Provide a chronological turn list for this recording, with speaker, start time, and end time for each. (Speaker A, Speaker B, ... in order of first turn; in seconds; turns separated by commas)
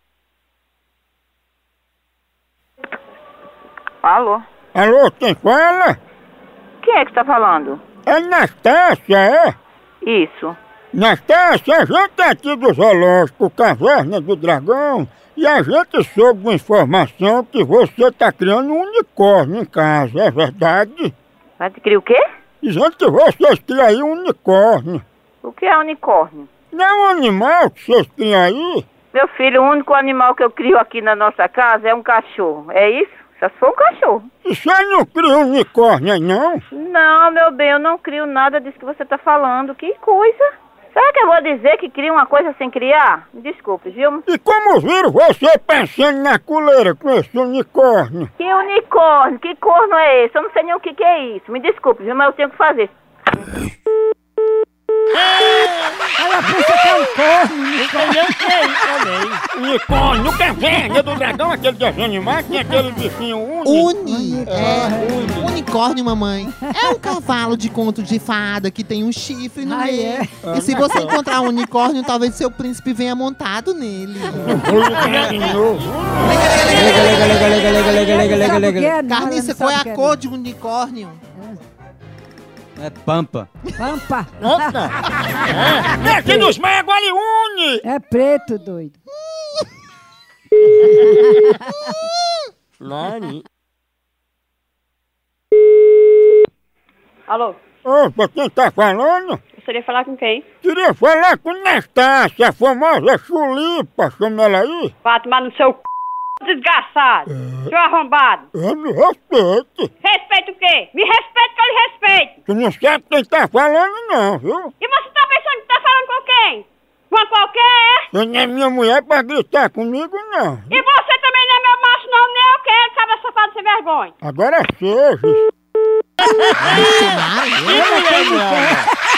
Speaker A: 4.0-4.4, Speaker B: 4.8-6.0, Speaker A: 6.8-7.8, Speaker B: 8.1-9.6, Speaker A: 10.0-10.6, Speaker B: 10.9-21.1, Speaker A: 21.6-22.2, Speaker B: 22.6-25.0, Speaker A: 25.4-26.5, Speaker B: 26.7-28.9, Speaker A: 29.1-34.3, Speaker B: 34.5-36.6, Speaker A: 36.7-40.4, Speaker A: 40.9-44.2, Speaker B: 44.3-48.3, Speaker A: 48.4-52.9, Speaker C: 55.1-56.1, Speaker D: 56.2-58.8, Speaker C: 57.8-59.4, Speaker B: 59.5-63.9, Speaker E: 63.6-74.8, Speaker D: 64.0-65.2, Speaker C: 64.5-65.5, Speaker D: 66.6-66.9, Speaker D: 69.6-70.8, Speaker B: 70.4-70.8, Speaker C: 70.6-71.2, Speaker B: 74.5-76.4, Speaker C: 74.8-75.6, Speaker E: 76.2-77.5, Speaker F: 76.6-79.0, Speaker E: 78.0-81.2, Speaker D: 78.3-80.2, Speaker F: 82.8-83.5, Speaker D: 83.8-84.9, Speaker C: 84.4-85.0, Speaker C: 85.5-86.5, Speaker B: 85.9-87.8, Speaker D: 87.8-89.0, Speaker C: 92.8-93.4, Speaker G: 97.3-97.6, Speaker B: 97.8-99.4, Speaker G: 99.6-100.4, Speaker B: 100.6-104.9, Speaker G: 105.0-105.8, Speaker G: 106.4-108.5, Speaker B: 107.3-107.7, Speaker B: 108.5-109.9, Speaker G: 110.0-112.3, Speaker B: 112.5-114.7, Speaker G: 114.8-118.1, Speaker B: 118.1-120.8, Speaker G: 120.7-124.1, Speaker B: 124.2-125.5, Speaker C: 126.2-128.9, Speaker E: 126.5-128.0, Speaker D: 127.7-128.9